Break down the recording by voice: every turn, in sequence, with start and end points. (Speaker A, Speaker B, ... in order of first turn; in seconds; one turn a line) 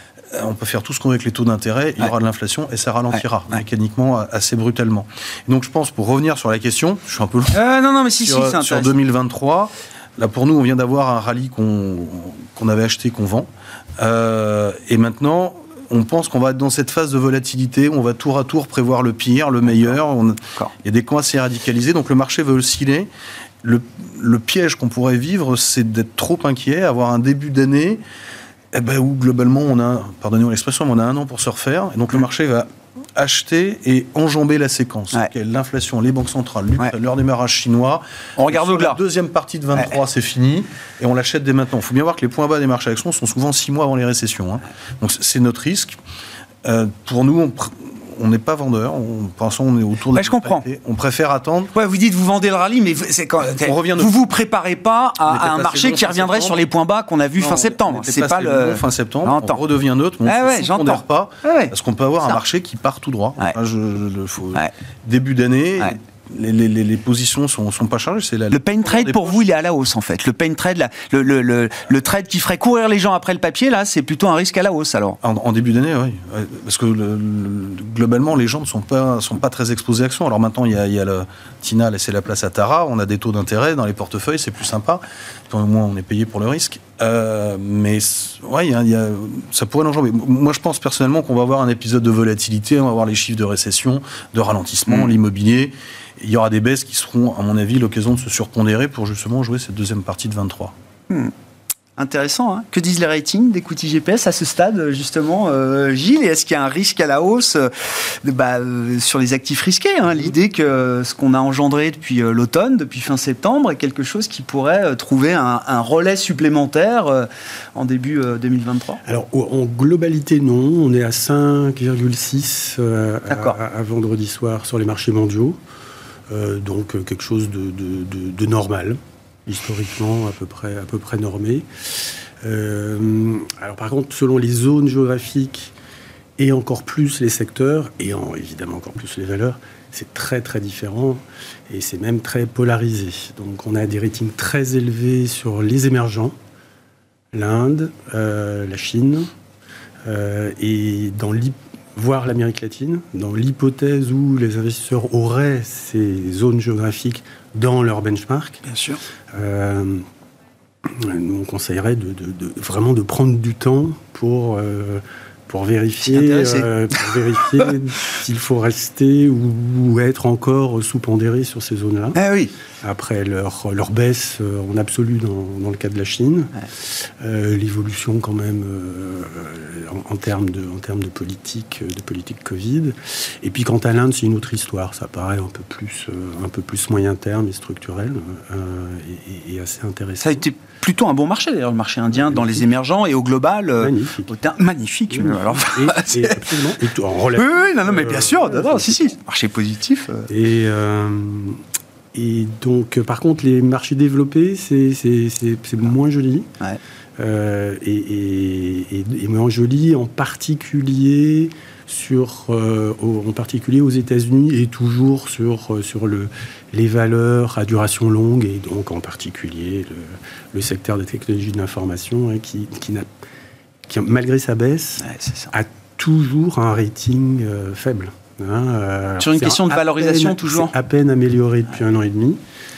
Speaker A: 0.3-7.6
Speaker B: 3.1-3.6
Speaker B: 7.5-8.9
Speaker A: 8.2-23.1
Speaker B: 19.7-20.0
Speaker A: 23.6-28.0
Speaker A: 28.7-46.0
Speaker B: 38.4-39.0
Speaker A: 46.6-51.7
Speaker B: 50.1-50.6
Speaker B: 51.8-59.6
Speaker A: 53.6-54.1
Speaker A: 55.3-56.6
Speaker A: 57.4-69.4
Speaker B: 60.2-62.4
Speaker B: 68.5-75.2
Speaker A: 75.2-100.7
Speaker B: 94.9-95.1
Speaker B: 102.0-119.0
Speaker C: 119.0-125.6
Speaker B: 123.3-123.6
Speaker C: 126.3-135.7
Speaker C: 136.4-146.3
Speaker C: 147.3-149.3
Speaker C: 150.1-158.6
Speaker B: 158.7-159.0
Speaker C: 159.3-160.1
Speaker C: 160.8-172.2
Speaker B: 166.0-167.1
Speaker B: 172.2-172.5
Speaker C: 172.8-190.4
Speaker B: 190.2-196.5
Speaker C: 192.1-192.7
Speaker C: 193.8-194.3
Speaker C: 195.1-199.1
Speaker B: 197.4-200.3
Speaker C: 200.3-201.6
Speaker C: 202.1-206.5
Speaker C: 207.2-223.1
Speaker C: 223.9-232.4
Speaker B: 225.0-225.5
Speaker B: 229.2-230.7